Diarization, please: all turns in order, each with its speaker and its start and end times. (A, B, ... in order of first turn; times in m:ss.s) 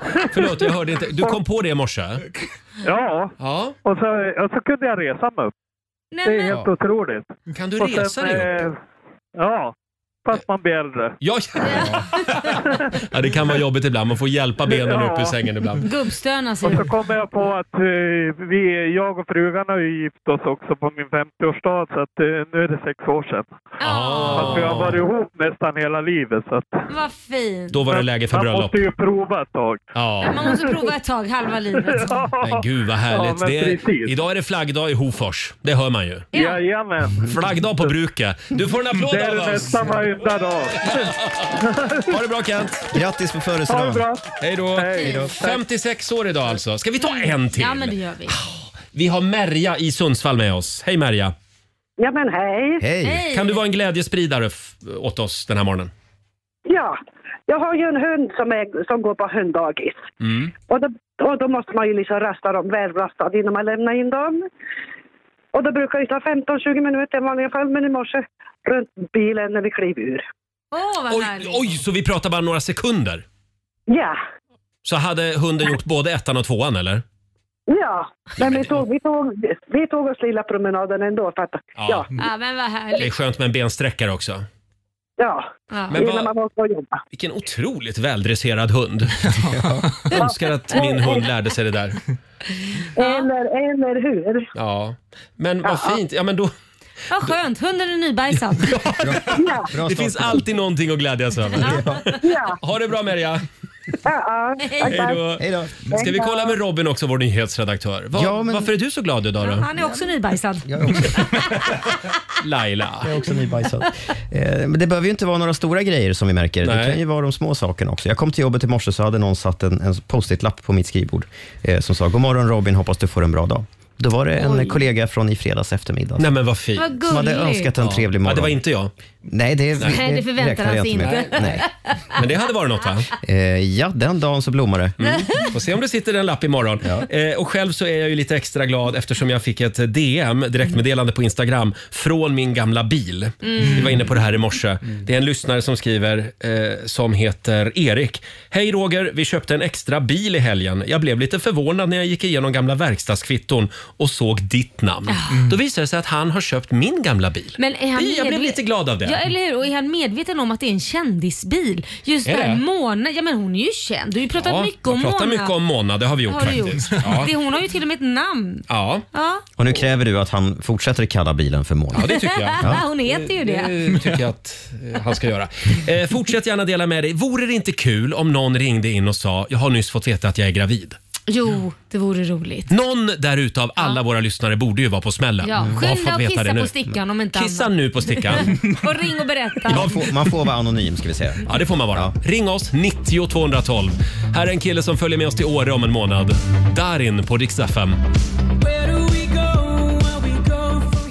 0:00.2-0:00.6 A
0:00.3-0:02.2 B
0:02.8-0:03.3 A
0:03.4-0:03.8 B
0:03.8-0:05.5 A
0:06.1-0:06.6 C
0:06.2-0:08.8 A
0:07.5-0:08.7 B
0:09.4-0:09.7 A
0:10.2-0:11.2 A
0:11.2-0:15.8 B
0:11.6-0:12.5 C
0:14.7-0:15.4 A
0:15.8-0:16.9 C
0:16.6-0:23.5 A
0:23.8-0:24.8 C
0:23.8-0:25.0 B
0:24.3-0:26.7 A
0:26.9-0:27.8 C
0:27.7-0:28.9 B
0:27.9-0:29.8 A
0:30.0-0:30.5 B
0:30.2-0:32.2 C
0:31.8-0:34.1 A
0:32.4-0:36.3 B
0:36.3-0:36.6 C
0:36.3-0:37.3 A
0:37.2-0:40.0 B
0:39.0-0:42.1 A
0:40.8-0:42.9 B
0:42.9-0:44.0 D
0:43.7-0:45.6 A
0:44.4-0:51.3 B
0:45.0-0:45.3 C
0:47.0-0:48.4 C
0:52.0-0:52.8 E
0:52.8-0:53.2 D
0:53.0-0:53.6 C
0:53.3-0:55.9 B
0:56.7-0:57.0 E
0:57.5-1:00.0 E
1:00.2-1:00.5 B
1:00.7-1:04.4 E
1:05.5-1:10.2 E
1:10.7-1:11.7 C
1:11.1-1:13.2 B
1:13.9-1:14.2 E
1:14.8-1:17.0 B
1:17.7-1:22.1 E
1:18.4-1:18.8 B
1:21.8-1:22.1 B
1:22.2-1:23.1 C
1:23.0-1:24.5 B
1:25.2-1:27.0 E
1:25.7-1:26.0 C
1:25.9-1:26.3 B
1:27.1-1:29.2 B
1:29.5-1:29.8 D
1:30.1-1:32.0 B
1:30.2-1:31.2 E
1:33.0-1:34.5 E
1:33.0-1:33.2 C
1:34.6-1:36.5 B
1:35.6-1:36.0 E
1:37.1-1:38.8 C
1:38.6-1:43.4 B
1:39.0-1:40.4 D
1:39.4-1:39.6 E
1:41.6-1:42.2 C
1:41.6-1:42.0 D
1:42.2-1:42.6 E
1:44.0-1:45.2 E
1:44.7-1:45.0 C
1:44.8-1:49.7 B
1:45.4-1:45.9 D
1:45.9-1:46.6 E
1:48.1-1:48.7 D
1:49.4-1:51.4 C
1:50.7-1:51.2 D
1:52.4-1:53.1 B
1:53.0-2:06.3 D
1:56.6-1:57.0 B
2:04.4-2:04.8 C
2:06.2-2:07.0 B
2:06.8-2:07.7 C
2:07.1-2:08.6 D
2:07.8-2:08.9 B
2:09.3-2:11.7 D
2:09.8-2:12.0 C
2:11.0-2:11.4 B
2:12.1-2:13.1 B
2:13.2-2:15.0 D
2:15.0-2:39.2 B
2:15.0-2:15.5 C
2:23.4-2:23.9 C
2:35.1-2:35.4 C
2:37.6-2:45.5 C
2:42.2-2:42.6 B
2:44.4-2:47.3 B
2:46.3-2:49.4 C
2:48.7-2:49.0 B
2:49.6-2:52.8 D
2:52.0-3:01.0 B
2:52.1-2:53.7 C
3:01.3-3:02.7 C
3:02.7-3:06.7 B
3:05.4-3:09.9 C
3:07.3-3:08.6 B
3:09.7-3:12.1 D
3:09.7-3:10.0 B
3:11.5-3:18.0 B